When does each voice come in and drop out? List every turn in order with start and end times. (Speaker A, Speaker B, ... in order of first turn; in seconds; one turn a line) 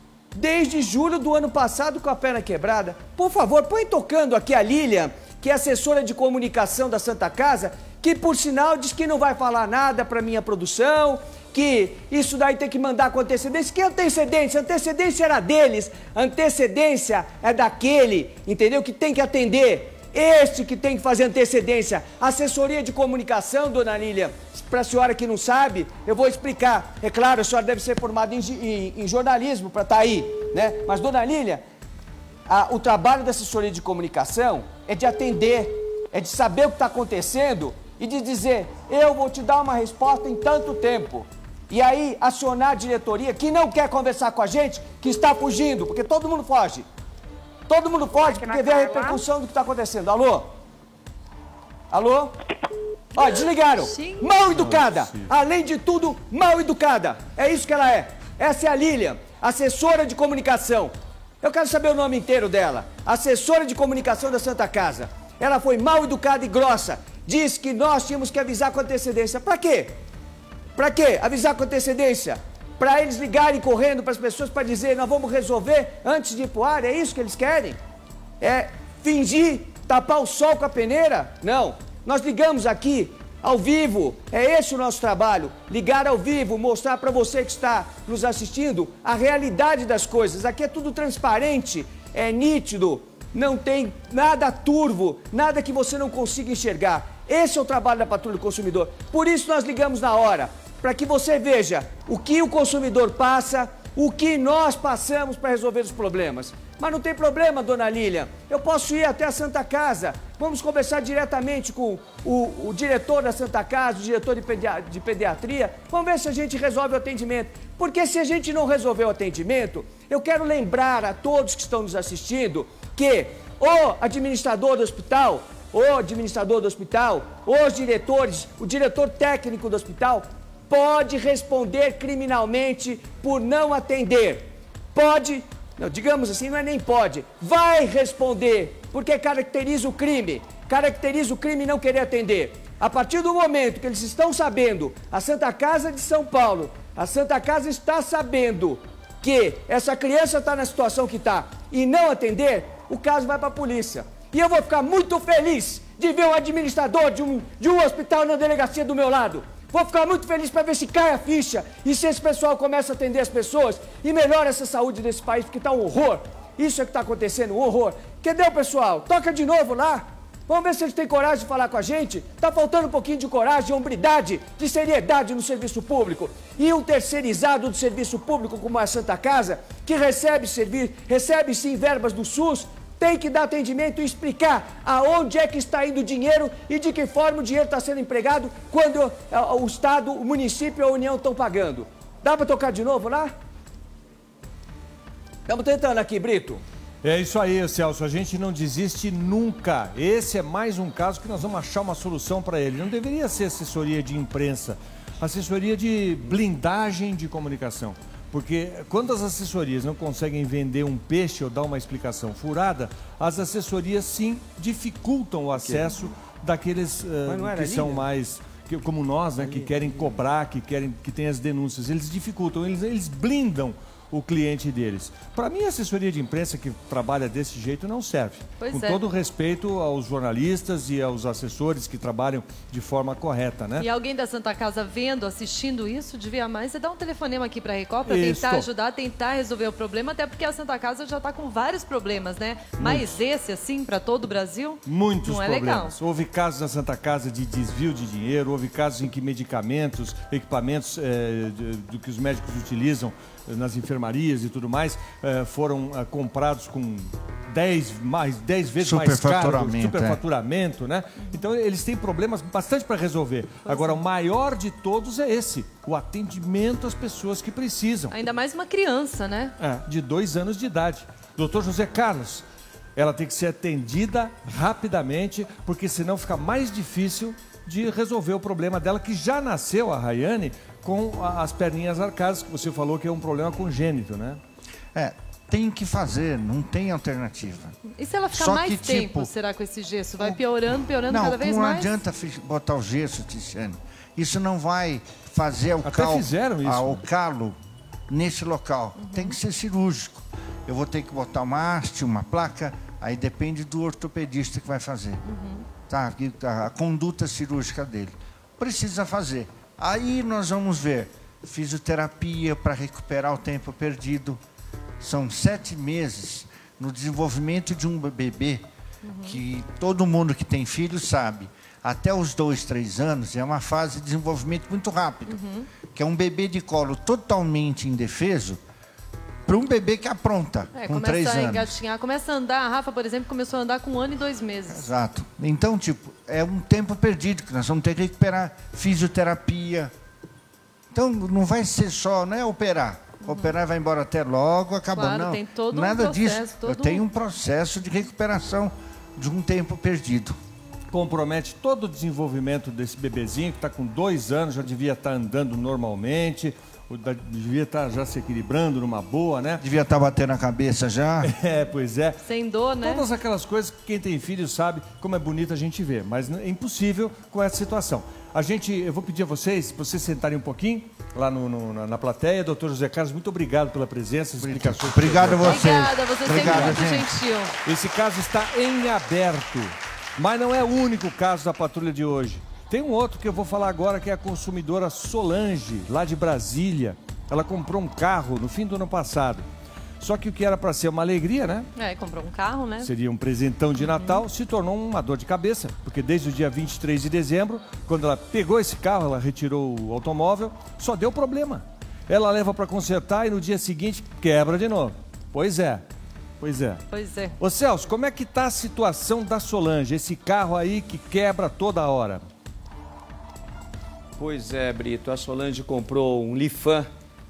Speaker A: 0.3-31.6
Speaker A: 32.5-46.9
Speaker A: 47.7-50.5
Speaker A: 51.9-52.4
Speaker A: 53.1-70.0
Speaker B: 53.7-54.4
Speaker C: 54.5-55.3
Speaker A: 70.8-77.8
Speaker A: 78.4-193.3
Speaker A: 195.5-196.6
Speaker C: 197.0-233.9
Speaker A: 215.6-215.9
Speaker A: 217.2-218.1
Speaker A: 219.4-220.1
Speaker B: 228.6-229.0
Speaker B: 233.8-245.9
Speaker C: 238.1-238.7
Speaker C: 242.8-243.2
Speaker C: 244.8-268.1
Speaker D: 258.8-260.2
Speaker B: 263.7-264.0
Speaker B: 268.1-269.5
Speaker C: 269.6-272.4
Speaker C: 272.9-284.4
Speaker D: 284.9-287.8
Speaker B: 287.9-291.9
Speaker D: 288.3-289.3
Speaker D: 291.1-297.6
Speaker C: 295.8-297.0
Speaker D: 298.1-305.2
Speaker B: 299.0-299.3
Speaker B: 305.3-305.6
Speaker D: 305.9-314.4
Speaker D: 315.0-318.6
Speaker B: 319.0-319.4
Speaker D: 319.2-328.6
Speaker B: 325.3-325.6
Speaker D: 329.4-331.8
Speaker B: 330.7-334.9
Speaker D: 334.7-339.9
Speaker D: 340.9-350.4
Speaker B: 343.2-343.5
Speaker B: 344.9-347.0
Speaker C: 350.9-359.6
Speaker D: 359.6-361.3
Speaker C: 361.2-362.2
Speaker B: 362.2-363.0
Speaker C: 362.8-375.7
Speaker D: 374.4-377.1
Speaker B: 375.4-377.6
Speaker C: 376.3-376.9
Speaker C: 377.6-389.4
Speaker C: 390.0-391.7
Speaker B: 391.8-392.9
Speaker C: 392.8-405.8
Speaker B: 393.8-394.2
Speaker C: 406.4-406.8
Speaker B: 406.9-407.3
Speaker C: 407.4-412.2
Speaker A: 414.2-416.9